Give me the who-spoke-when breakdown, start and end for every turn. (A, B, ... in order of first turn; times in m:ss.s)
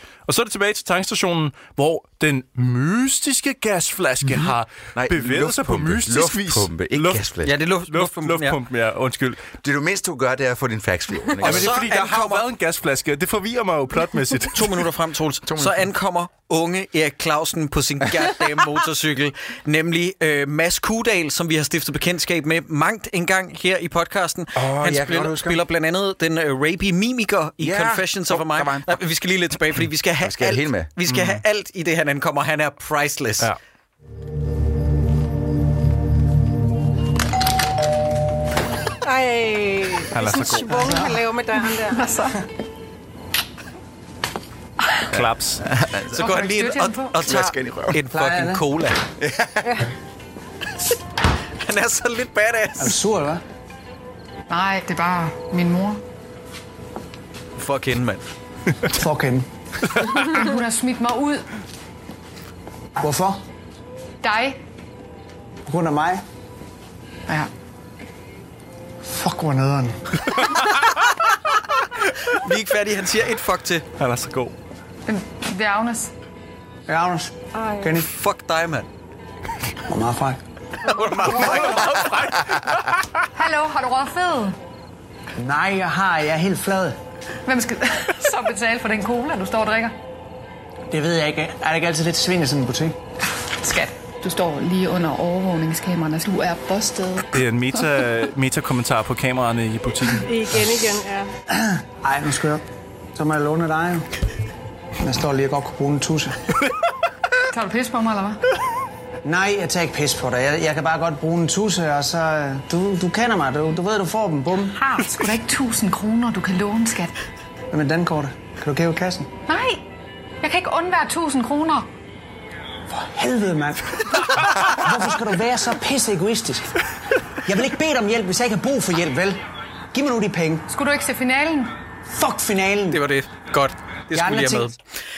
0:00.3-0:09.4 A
0:04.2-0:07.5 B
0:07.4-0:08.6 C
0:09.6-0:11.9 B
0:11.4-0:12.4 C
0:11.4-0:14.9 A
0:14.5-0:33.5 C
0:15.4-0:15.9 B
0:24.6-0:25.6 B
0:27.6-0:29.0 B
0:30.2-0:30.9 B
0:31.1-0:31.4 A
0:39.0-0:42.2 D
0:40.1-0:41.0 A
0:41.9-0:42.3 E
0:45.1-0:45.6 A
0:45.6-0:46.4 B
0:46.1-0:49.0 C
0:46.1-0:47.1 E
0:47.2-0:48.0 B
0:48.1-0:48.6 F
0:49.2-0:49.8 B
0:51.6-0:53.0 C
0:52.8-0:53.4 F
0:54.5-0:56.0 E
0:57.6-0:58.2 C
0:58.9-0:59.4 F
1:00.2-1:01.5 E
1:03.0-1:03.4 F
1:04.2-1:04.6 E
1:05.7-1:06.2 F
1:09.0-1:10.5 F
1:12.3-1:13.9 C
1:14.0-1:14.5 A
1:15.0-1:16.1 E
1:16.9-1:18.1 F
1:17.6-1:17.9 D
1:18.0-1:18.9 C
1:19.9-1:20.4 F
1:20.8-1:22.1 C
1:21.4-1:23.0 A
1:23.3-1:24.6 E
1:25.4-1:27.0 F
1:27.4-1:29.9 E
1:30.9-1:32.9 F
1:33.6-1:37.3 E
1:37.3-1:40.3 A
1:40.2-1:41.3 D
1:41.5-1:42.6 F
1:43.2-1:44.0 F
1:45.0-1:46.3 F
1:47.5-1:48.4 E
1:49.2-1:54.8 F
1:54.8-1:57.1 E
1:57.7-1:59.3 F
1:59.5-1:59.8 E
2:00.4-2:01.9 E
2:02.9-2:06.7 F
2:07.4-2:09.4 F
2:09.9-2:10.7 F
2:10.7-2:11.7 E
2:12.1-2:13.0 F
2:12.9-2:14.8 C
2:14.1-2:14.7 F